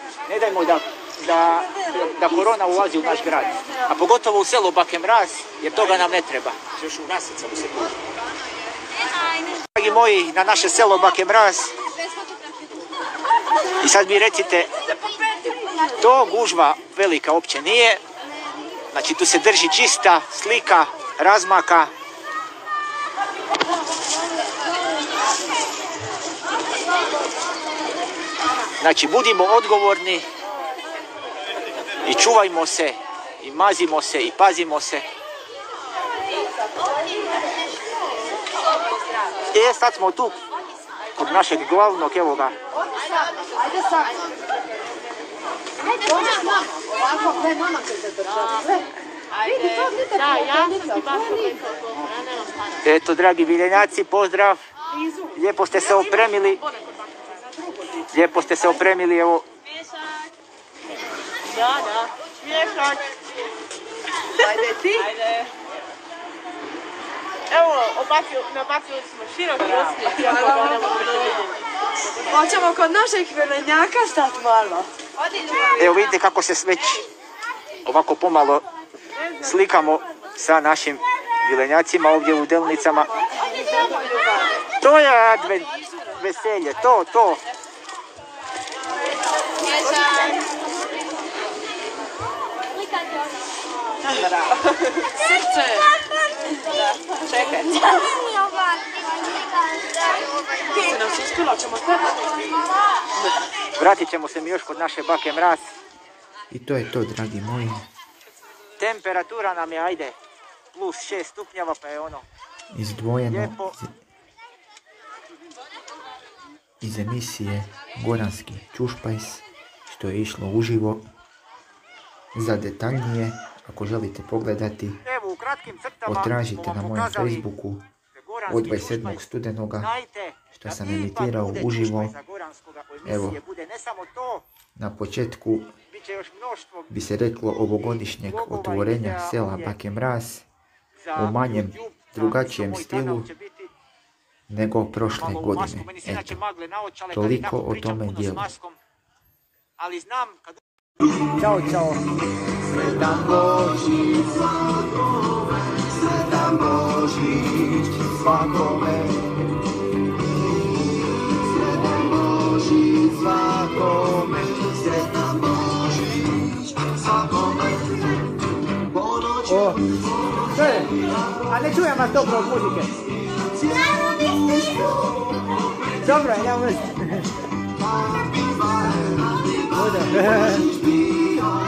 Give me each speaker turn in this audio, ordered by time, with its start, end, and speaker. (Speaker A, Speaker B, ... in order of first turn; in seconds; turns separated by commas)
Speaker A: 0.3-7.9, Speaker A: 9.8-11.7, Speaker A: 13.8-14.8, Speaker A: 16.0-18.0, Speaker A: 18.9-21.9, Speaker A: 28.8-30.2, Speaker A: 32.0-35.0, Speaker A: 39.5-40.4, Speaker A: 41.2-42.5, Speaker B: 46.1-46.4, Speaker B: 48.1-48.8, Speaker B: 49.4-52.8, Speaker A: 52.8-54.6, Speaker A: 55.4-56.6, Speaker B: 56.6-57.4, Speaker A: 58.1-59.5, Speaker B: 61.5-63.1, Speaker B: 64.8-65.5, Speaker B: 67.5-71.5, Speaker C: 72.3-74.8, Speaker A: 75.8-77.0, Speaker A: 77.8-78.7, Speaker A: 79.4-83.1, Speaker B: 83.8-84.3, Speaker A: 84.8-87.4, Speaker B: 89.9-90.2, Speaker B: 97.3-97.8, Speaker B: 100.7-102.1, Speaker A: 103.8-105.7, Speaker D: 106.5-107.9, Speaker A: 108.8-110.2, Speaker A: 110.7-112.2, Speaker D: 112.7-114.0, Speaker A: 113.3-113.8, Speaker D: 116.8-121.0, Speaker D: 122.3-125.0, Speaker A: 125.0-127.5, Speaker D: 126.1-127.9, Speaker A: 128.1-129.2, Speaker D: 128.5-129.9, Speaker A: 129.8-134.4, Speaker D: 130.5-132.1, Speaker D: 133.1-133.4, Speaker D: 134.8-135.7, Speaker A: 135.9-137.0, Speaker D: 136.9-140.5, Speaker A: 138.2-139.8, Speaker A: 141.0-143.7, Speaker D: 141.2-143.3, Speaker D: 144.5-146.4, Speaker A: 145.1-148.8, Speaker D: 147.1-148.5, Speaker A: 149.8-150.6, Speaker A: 151.3-152.1, Speaker A: 152.8-154.1, Speaker A: 156.4-157.2, Speaker A: 158.2-158.8, Speaker A: 163.4-165.0, Speaker A: 169.4-169.8, Speaker A: 170.4-173.0, Speaker A: 176.0-177.3, Speaker A: 179.7-180.8